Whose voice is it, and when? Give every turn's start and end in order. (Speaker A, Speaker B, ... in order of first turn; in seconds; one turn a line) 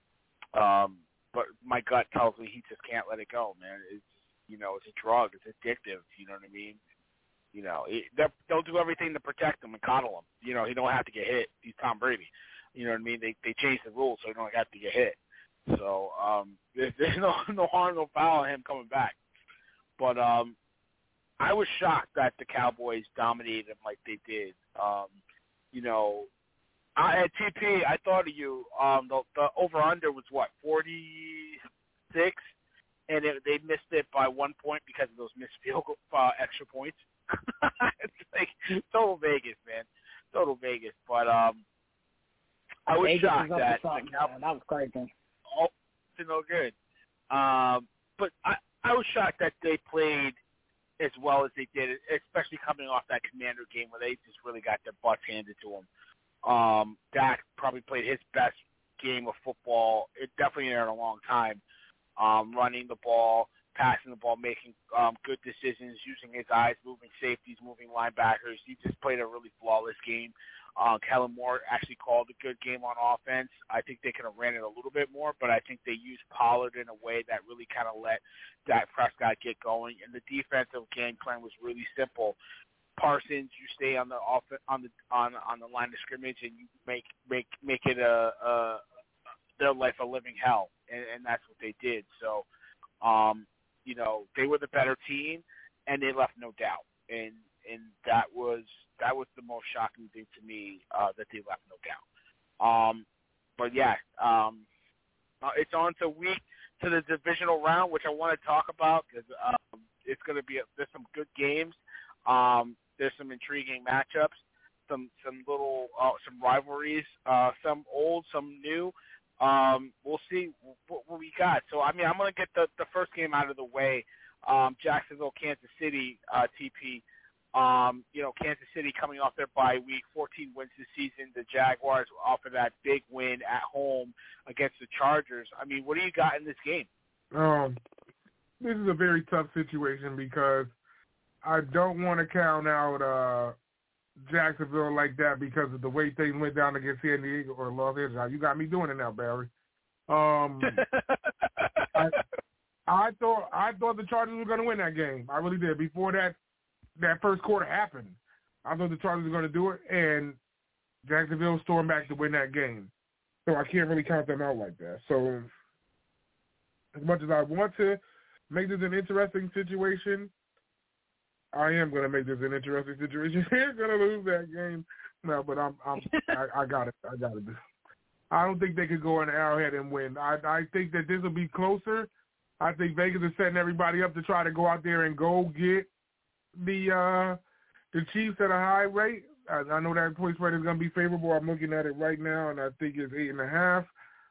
Speaker A: 0.5-6.8
Speaker A: 7.5-19.2
Speaker A: 20.0-20.6
Speaker A: 21.4-25.2
Speaker A: 25.7-26.3
Speaker A: 27.0-31.6
Speaker A: 32.1-32.5
Speaker A: 33.1-41.6
Speaker A: 42.9-44.3
Speaker B: 43.0-45.1
Speaker A: 45.5-46.8
Speaker A: 47.3-50.4
Speaker A: 51.0-55.9
Speaker A: 56.4-61.6
Speaker A: 62.2-82.4
Speaker A: 83.0-88.8
Speaker A: 89.6-92.5
Speaker A: 93.0-102.0
Speaker A: 102.6-103.1
Speaker A: 103.6-104.7
Speaker A: 105.4-136.9
Speaker C: 137.3-137.8
Speaker C: 138.6-140.7
Speaker C: 141.4-143.6
Speaker C: 144.2-149.5
Speaker C: 150.1-150.8
Speaker A: 150.6-152.2
Speaker C: 152.9-156.4
Speaker C: 157.0-160.4
Speaker C: 161.1-162.9
Speaker C: 163.5-165.5
Speaker C: 166.9-170.3
Speaker C: 171.5-177.6
Speaker A: 176.1-176.3
Speaker C: 178.3-182.1
Speaker C: 182.6-185.9
Speaker C: 186.6-187.4
Speaker C: 187.9-193.9